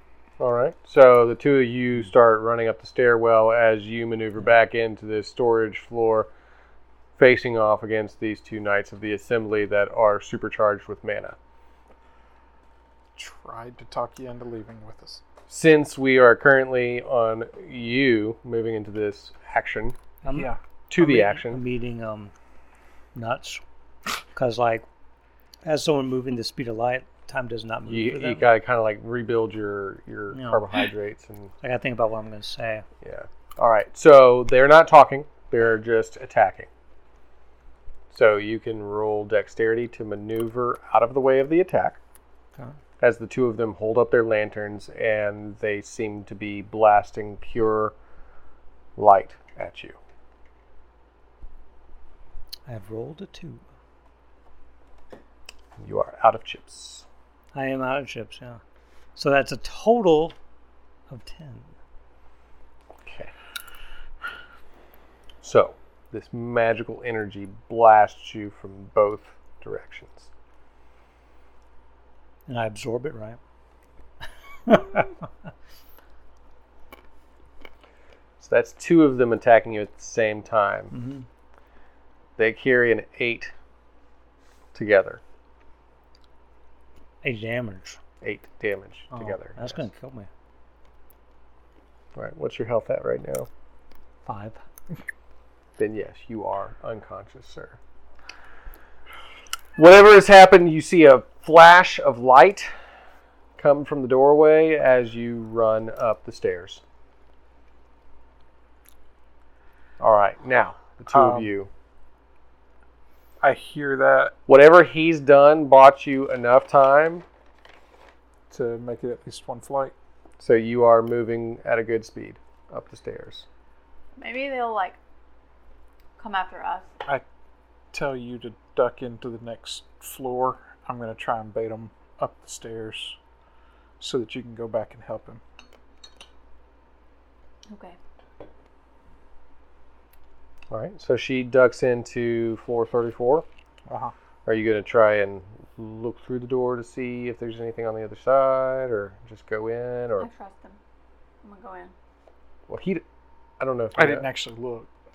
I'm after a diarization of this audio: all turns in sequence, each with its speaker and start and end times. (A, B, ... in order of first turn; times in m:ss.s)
0:00.4-0:06.3 A
0:07.2-0:11.4 A
0:13.2-0:15.2 B
0:15.5-0:20.0 A
0:20.2-0:22.3 C
0:20.3-0:20.6 B
0:20.9-0:21.6 A
0:23.2-0:23.6 C
0:24.3-0:24.8 C
0:25.6-0:28.5 C
0:27.9-0:31.5 A
0:30.3-0:30.8 C
0:31.6-0:32.8 C
0:33.0-0:36.7 A
0:38.1-0:42.0 A
0:43.0-0:47.9 A
0:49.0-0:50.0 A
0:52.7-0:53.6 C
0:55.8-0:57.1 A
0:57.5-0:58.6 C
0:59.2-1:00.4 C
1:01.1-1:01.7 C
1:03.1-1:03.3 A
1:05.4-1:10.3 A
1:12.5-1:13.4 C
1:14.7-1:15.2 C
1:18.4-1:20.9 A
1:20.9-1:21.3 C
1:22.4-1:23.5 A
1:24.7-1:25.2 A
1:27.2-1:28.0 C
1:28.2-1:29.9 A
1:29.1-1:30.3 C
1:32.2-1:33.5 A
1:34.2-1:34.6 C
1:35.8-1:37.8 A
1:39.8-1:42.7 A
1:43.6-1:46.8 A
1:50.0-1:51.7 A
1:51.1-1:51.5 B
1:53.4-1:54.3 B
1:54.5-1:57.2 A
1:58.5-1:59.9 B
2:00.4-2:03.5 A
2:04.2-2:05.0 D
2:06.2-2:06.9 D
2:07.9-2:13.2 B
2:14.0-2:15.4 B
2:17.7-2:18.0 D
2:20.7-2:23.5 A
2:23.9-2:24.1 B
2:24.5-2:30.3 A
2:30.2-2:30.8 D
2:31.4-2:31.9 D
2:32.7-2:33.0 A
2:33.6-2:34.3 A
2:34.0-2:34.9 B